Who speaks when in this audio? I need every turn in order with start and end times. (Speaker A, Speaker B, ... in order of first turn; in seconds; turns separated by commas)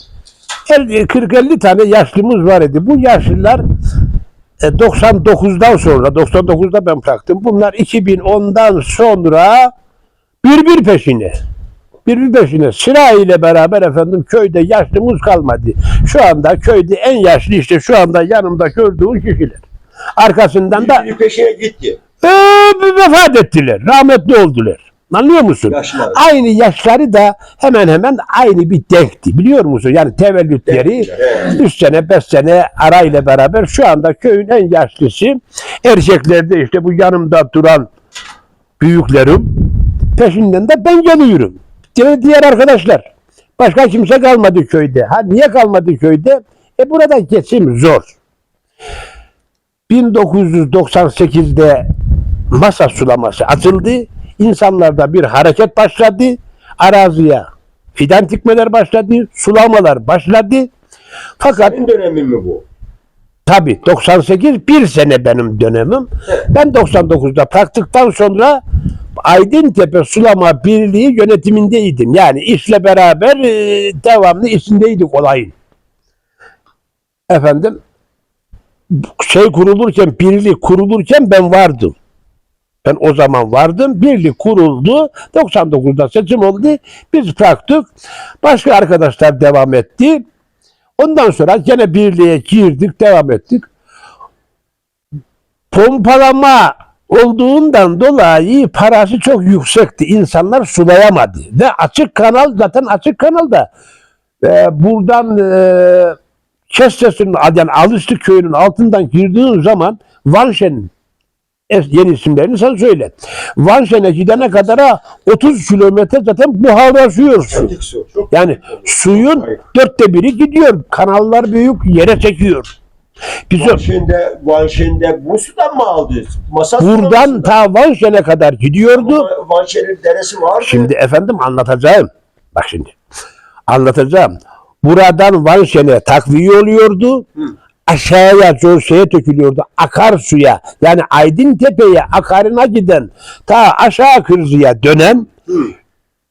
Speaker A: 0.7-3.6, Speaker A: 4.6-9.7, Speaker A: 10.4-11.3, Speaker A: 12.1-19.6, Speaker A: 20.2-21.0, Speaker B: 20.7-22.0, Speaker A: 22.2-37.9, Speaker B: 25.7-26.2, Speaker B: 30.7-31.6, Speaker A: 38.8-43.0, Speaker A: 43.6-48.2, Speaker A: 49.9-51.9, Speaker A: 52.5-60.7, Speaker A: 61.4-61.8, Speaker B: 61.6-62.6, Speaker A: 63.5-68.6, Speaker A: 69.2-75.5, Speaker A: 77.3-77.8, Speaker A: 78.9-82.0, Speaker A: 82.8-87.9, Speaker A: 88.4-90.2, Speaker A: 91.0-93.7, Speaker A: 95.7-103.7, Speaker A: 104.4-106.2, Speaker A: 106.7-110.9, Speaker A: 111.7-117.7, Speaker B: 114.4-114.6, Speaker B: 117.5-119.6, Speaker A: 118.3-122.7, Speaker A: 123.5-123.8, Speaker B: 123.5-127.5, Speaker A: 126.8-129.3, Speaker B: 128.9-130.9, Speaker A: 130.6-132.9, Speaker A: 133.7-137.3, Speaker A: 137.9-145.3